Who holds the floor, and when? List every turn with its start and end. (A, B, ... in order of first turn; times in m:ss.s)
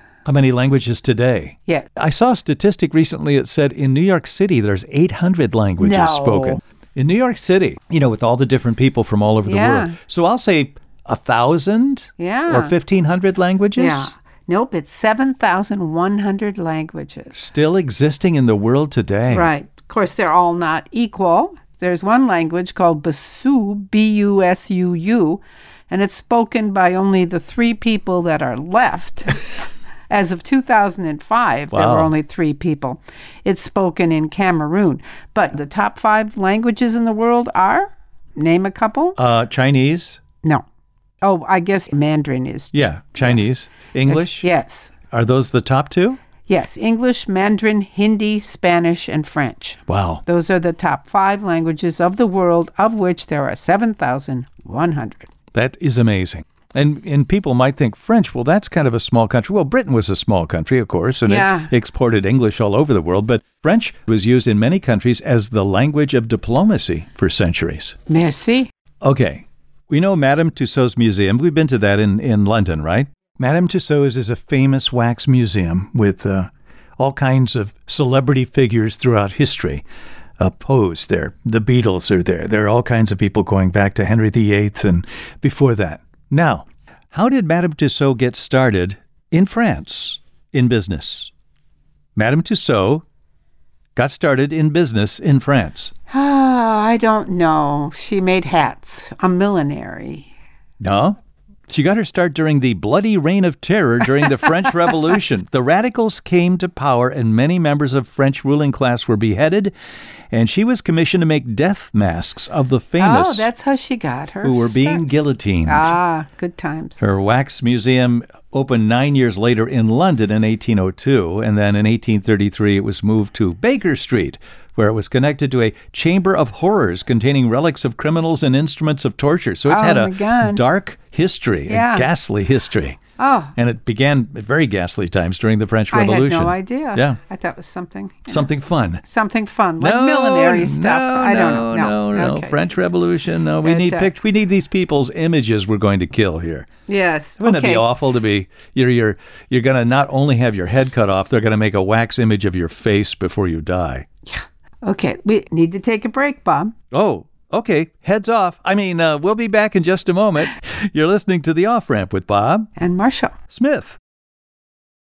0:00.2-0:14.1 A
0:05.8-0:06.6 B
0:09.4-0:10.0 B
0:12.2-0:12.7 B
0:13.8-0:17.4 B
0:17.3-0:19.5 A
0:19.3-0:29.4 B
0:30.1-0:39.2 B
0:31.7-0:32.1 A
0:39.2-0:40.2 A
0:41.2-0:43.4 B
0:42.7-0:44.5 A
0:44.1-0:44.9 B
0:45.1-0:46.2 A
0:46.5-0:55.3 B
0:49.9-0:50.2 A
0:55.5-1:08.0 A
1:01.2-1:01.7 B
1:08.1-1:08.7 B
1:09.0-1:19.8 A
1:20.4-1:31.3 A
1:32.2-1:33.0 A
1:34.0-1:35.9 A
1:36.1-1:40.3 B
1:40.8-1:41.2 A
1:41.7-1:49.7 A
1:50.3-1:53.5 A
1:53.0-1:55.0 B
1:54.4-1:55.9 A
1:55.6-1:57.0 B
1:57.0-2:13.0 A
2:09.7-2:10.6 B
2:11.7-2:12.1 B
2:13.2-2:13.5 B
2:13.5-2:17.2 A
2:15.9-2:18.5 B
2:18.3-2:19.0 A
2:19.0-2:22.7 B
2:19.8-2:26.7 A
2:23.6-2:24.1 B
2:26.9-2:27.8 B
2:27.4-2:34.1 A
2:34.3-2:36.7 B
2:36.9-2:42.7 A
2:42.8-2:43.3 B
2:43.5-2:44.0 A